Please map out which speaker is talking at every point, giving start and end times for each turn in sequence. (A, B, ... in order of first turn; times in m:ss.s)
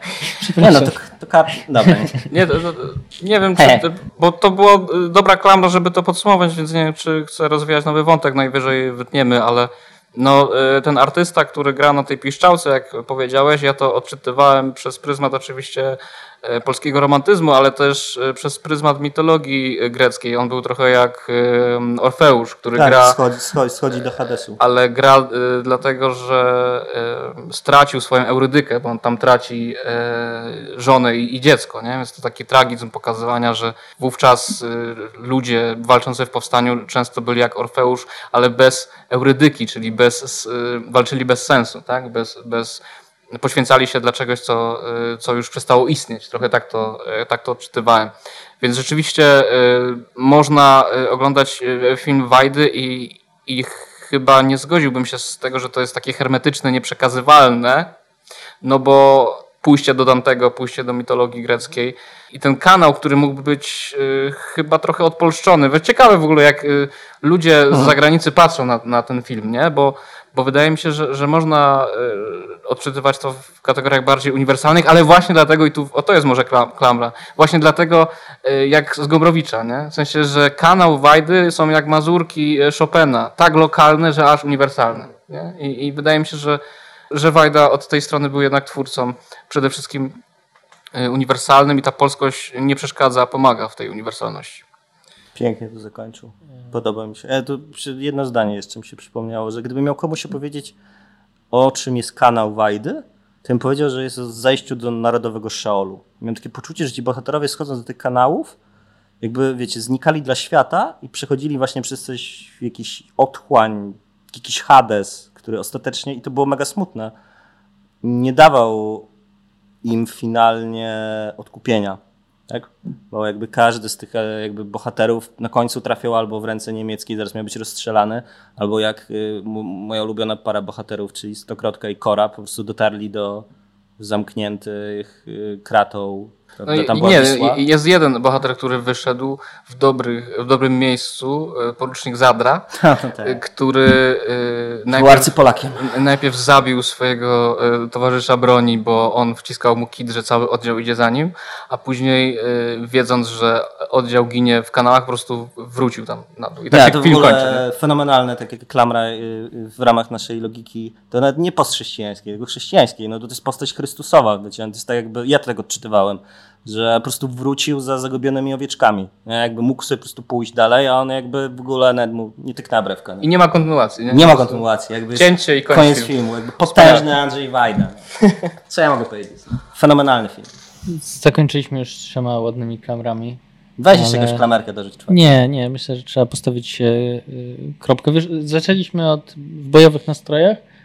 0:00.4-0:00.9 A
0:00.6-0:02.2 B
0:02.3-0:23.2 C
0:03.6-0:03.8 B
0:22.8-0:24.6 B
0:24.6-0:42.8 C
0:43.3-0:57.9 C
0:58.6-1:26.6 C
1:27.1-1:30.2 C
1:30.9-1:34.6 C
1:35.4-1:40.8 B
1:41.5-1:48.6 B
1:49.2-1:57.1 B
1:58.0-1:59.1 B
1:59.8-2:13.4 B
2:14.0-2:17.6 B
2:16.7-2:22.7 C
2:22.7-2:23.4 B
2:23.2-2:37.6 C
2:24.9-2:25.9 B
2:36.7-2:53.3 B
2:53.2-2:54.6 C
2:54.1-3:00.5 B
2:55.2-2:56.1 C
2:56.7-2:57.1 C
3:00.9-3:03.4 A
3:03.8-3:05.3 B
3:03.9-3:04.4 A
3:05.1-3:10.6 A